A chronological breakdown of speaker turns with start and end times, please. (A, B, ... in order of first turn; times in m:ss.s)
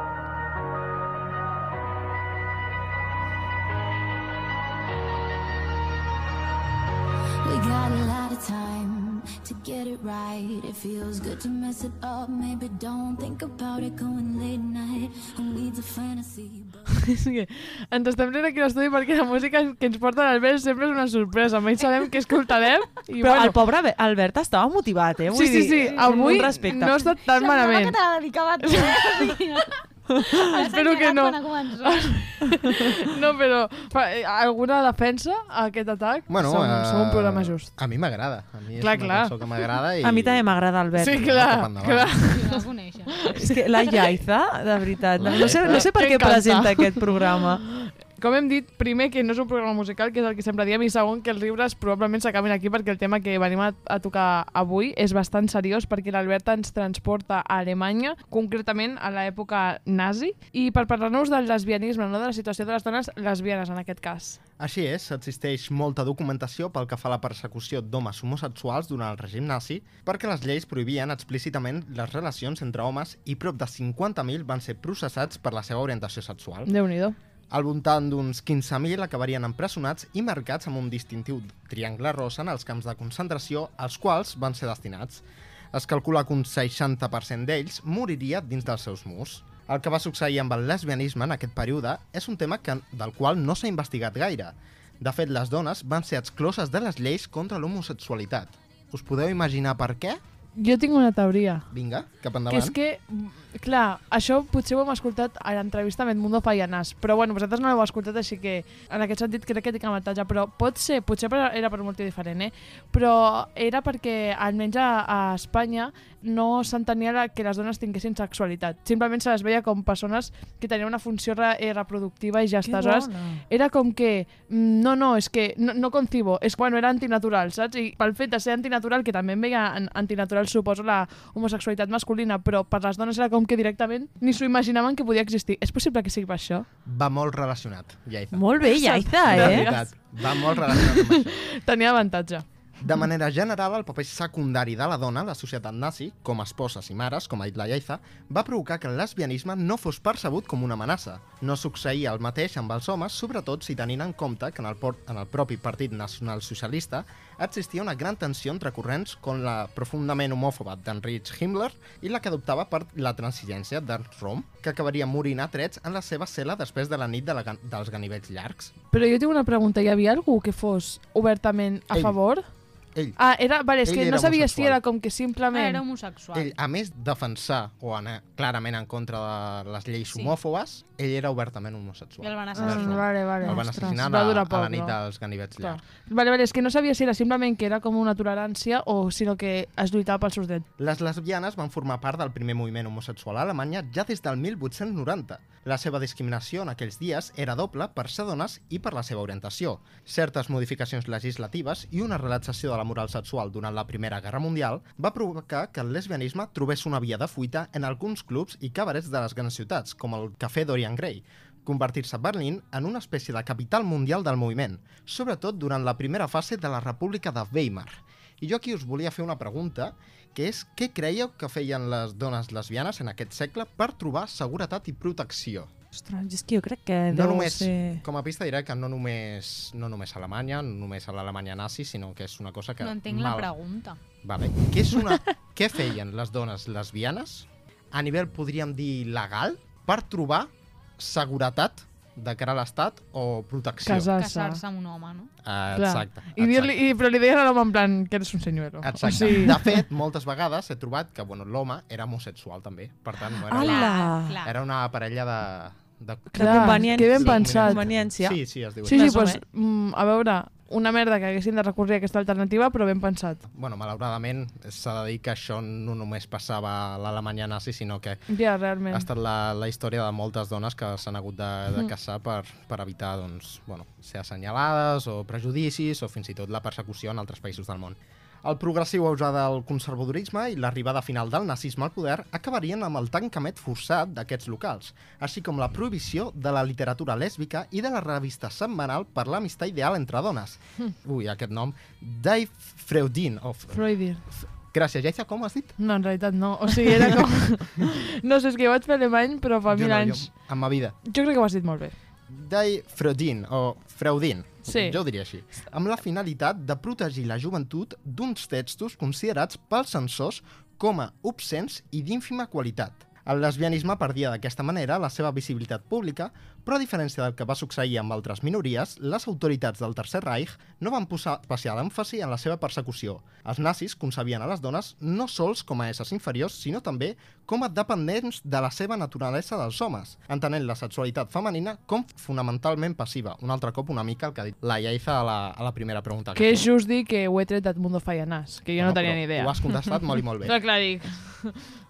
0:07.4-0:17.1 A
0:17.0-0:23.6 B
0:23.2-0:27.1 C
0:25.3-0:28.0 B
0:25.8-0:32.7 D
0:28.6-0:29.4 B
0:30.3-0:37.7 B
0:36.3-0:42.1 E
0:38.8-0:39.6 B
0:40.0-0:41.2 C
0:41.0-0:42.6 B
0:42.3-0:43.3 D
0:43.2-0:44.1 B
0:43.4-0:47.6 C
0:45.2-0:45.9 E
0:45.2-1:04.4 B
1:04.6-1:16.7 E
1:16.6-1:17.2 B
1:17.5-1:40.2 E
1:40.6-1:41.6 B
1:41.7-1:42.8 E
1:42.5-2:16.6 B
2:02.6-2:03.4 C
2:16.8-2:21.3 E
2:18.3-2:19.8 C
2:18.8-2:22.4 B
2:22.8-2:48.7 E
2:48.9-2:52.5 B
2:51.9-2:52.2 E
2:53.2-2:55.8 B
2:53.8-2:54.8 E
2:55.5-2:56.5 D
2:56.3-3:05.8 E
3:02.2-3:03.6 D
3:02.6-3:05.0 B
3:05.6-3:10.6 B
3:10.8-3:45.7 E
3:45.9-3:48.0 C
3:47.1-3:53.5 E
3:52.8-3:54.0 D
3:54.2-4:04.1 E
4:03.8-4:04.6 B
4:04.2-4:05.3 D
4:05.4-4:06.7 E
4:05.7-4:09.8 B
4:08.8-4:19.2 E
4:13.5-4:14.3 C
4:13.5-4:14.5 D
4:16.3-4:17.8 B
4:16.3-4:19.4 C
4:18.8-4:23.4 B
4:23.5-4:28.2 E
4:28.3-4:29.1 B
4:28.9-4:55.8 E
4:53.7-4:54.3 B
4:55.8-5:00.3 B
4:56.8-4:57.2 E
4:59.7-5:01.0 E
5:01.0-5:01.9 B
5:02.3-5:36.6 E
5:04.6-5:05.0 B
5:36.3-5:41.6 B
5:38.8-5:40.7 E